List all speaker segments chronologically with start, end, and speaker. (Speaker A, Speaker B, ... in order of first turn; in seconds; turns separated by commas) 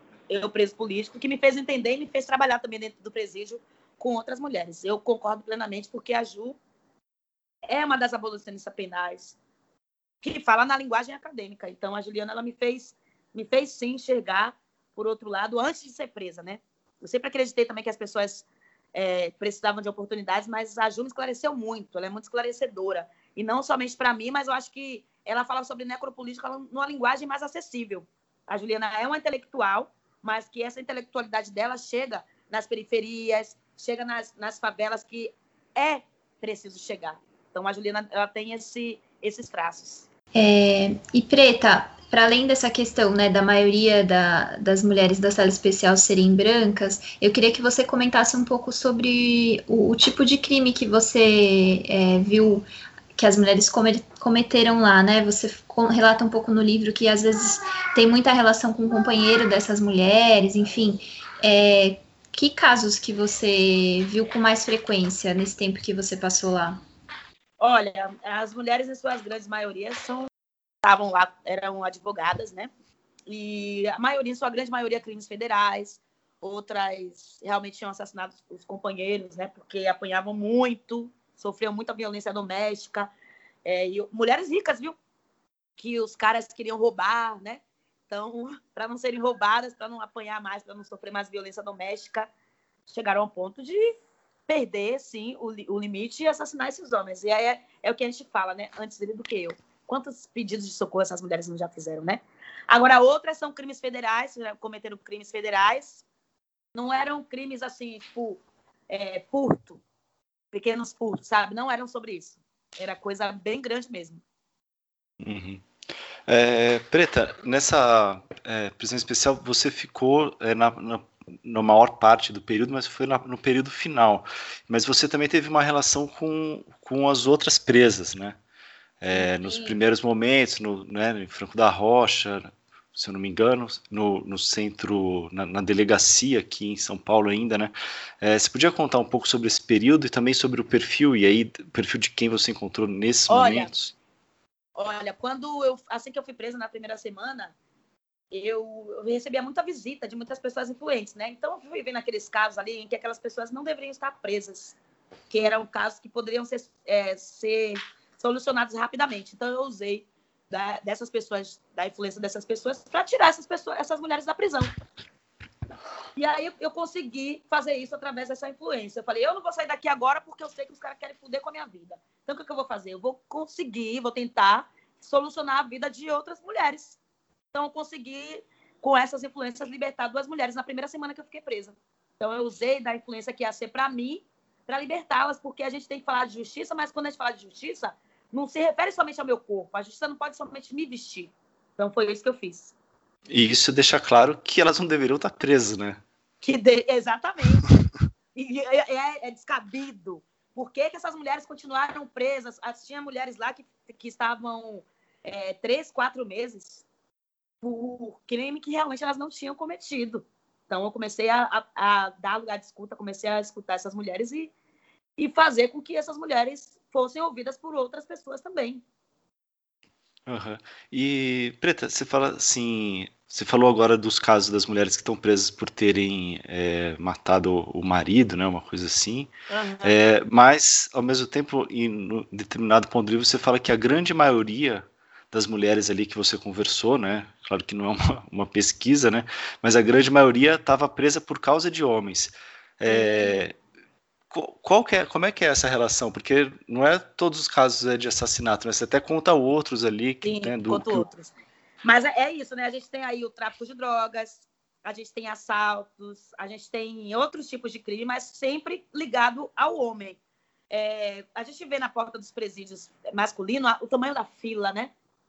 Speaker A: 0.3-6.6, Speaker A: 7.7-9.3, Speaker A: 10.2-40.1, Speaker B: 40.3-66.8, Speaker A: 67.6-70.3, Speaker A: 70.8-72.7, Speaker A: 73.3-83.1, Speaker A: 83.6-84.9, Speaker A: 85.8-92.3, Speaker A: 92.9-93.9, Speaker A: 94.5-106.0, Speaker A: 106.7-109.8, Speaker A: 110.5-114.2, Speaker C: 115.2-115.6, Speaker C: 116.3-128.4, Speaker C: 129.0-143.9, Speaker A: 129.1-129.8, Speaker A: 143.3-143.7, Speaker A: 144.8-147.5, Speaker A: 148.3-154.8, Speaker A: 155.3-164.7, Speaker A: 166.2-177.0, Speaker A: 177.5-192.7, Speaker C: 193.3-196.0, Speaker A: 196.4-197.7, Speaker A: 198.3-206.8, Speaker A: 207.6-214.5, Speaker A: 215.2-218.8, Speaker C: 220.3-229.3, Speaker A: 229.5-230.0, Speaker C: 229.8-243.6, Speaker A: 242.9-243.5, Speaker C: 244.3-251.1, Speaker A: 250.2-251.3, Speaker A: 251.8-260.2, Speaker A: 260.7-264.9